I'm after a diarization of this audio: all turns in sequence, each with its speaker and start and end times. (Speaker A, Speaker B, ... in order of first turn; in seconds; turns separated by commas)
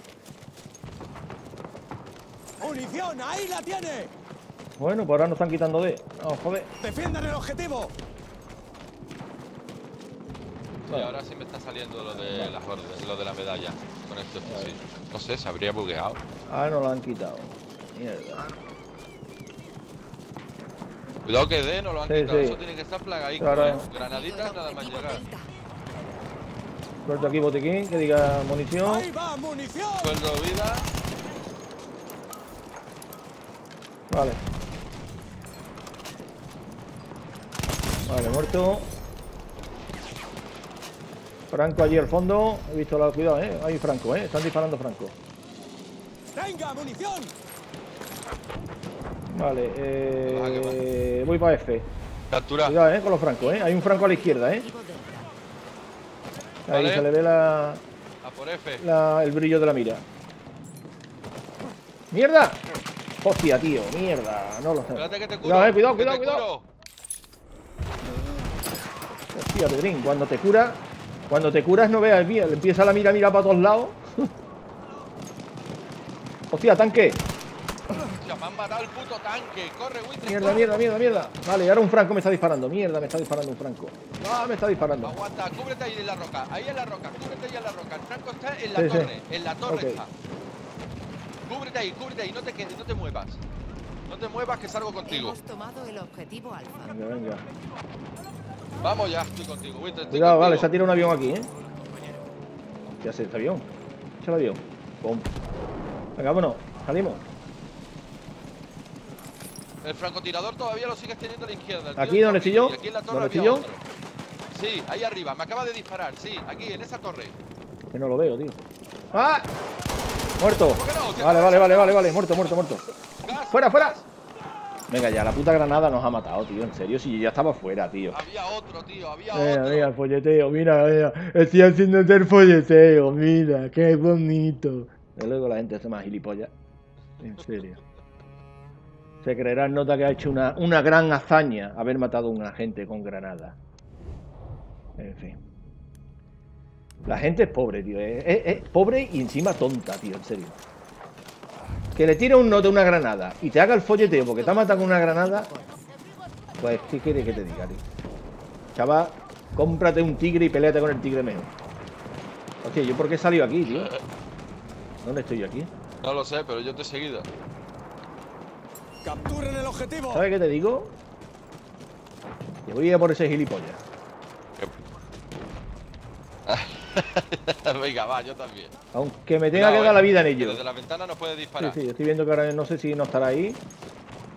Speaker A: 2.6-4.1, Speaker B: 4.8-6.7, Speaker A: 6.8-7.9, Speaker C: 10.8-16.2, Speaker B: 12.2-12.5, Speaker B: 14.4-14.8, Speaker B: 16.5-18.5, Speaker C: 21.2-25.2, Speaker B: 22.1-22.6, Speaker B: 23.4-23.9, Speaker D: 23.7-25.5, Speaker B: 27.0-29.1, Speaker A: 28.8-30.1, Speaker C: 30.0-30.9, Speaker B: 34.1-34.4, Speaker B: 38.0-38.9, Speaker B: 41.5-45.1, Speaker A: 46.3-47.3, Speaker B: 49.3-51.9, Speaker C: 50.2-50.8, Speaker C: 52.3-52.8, Speaker B: 52.6-54.6, Speaker D: 53.4-55.3, Speaker C: 56.7-57.1, Speaker B: 56.7-57.8, Speaker C: 58.2-58.9, Speaker B: 58.8-60.0, Speaker B: 62.1-62.6, Speaker B: 63.2-66.5, Speaker C: 64.9-66.7, Speaker B: 69.3-74.3, Speaker B: 76.5-77.2, Speaker C: 77.9-81.3, Speaker B: 80.2-85.1, Speaker C: 85.0-90.1, Speaker B: 88.7-89.1, Speaker B: 89.7-90.0, Speaker C: 91.5-93.4, Speaker C: 94.1-95.4, Speaker D: 95.1-97.0, Speaker B: 96.8-97.5, Speaker C: 98.8-100.7, Speaker B: 100.1-101.5, Speaker B: 103.0-103.7, Speaker B: 104.2-105.3, Speaker B: 106.2-107.3, Speaker C: 109.8-113.8, Speaker B: 112.0-113.7, Speaker C: 114.5-117.3, Speaker B: 117.9-118.6, Speaker B: 119.1-119.5, Speaker B: 120.4-124.0, Speaker C: 120.7-124.0, Speaker B: 124.9-128.2, Speaker C: 128.1-129.9, Speaker B: 129.3-136.5, Speaker B: 137.2-137.8, Speaker B: 139.2-143.6, Speaker B: 145.0-145.4, Speaker B: 147.0-150.6, Speaker B: 151.9-155.5, Speaker D: 153.9-155.8, Speaker B: 156.6-157.8, Speaker B: 158.7-161.5, Speaker B: 162.6-163.9, Speaker C: 163.7-164.0, Speaker B: 165.0-165.7, Speaker C: 166.0-167.3, Speaker A: 169.0-170.2, Speaker B: 170.1-170.9, Speaker B: 172.7-173.8, Speaker C: 176.4-178.7, Speaker B: 178.9-180.6, Speaker C: 179.5-181.8, Speaker B: 181.6-183.6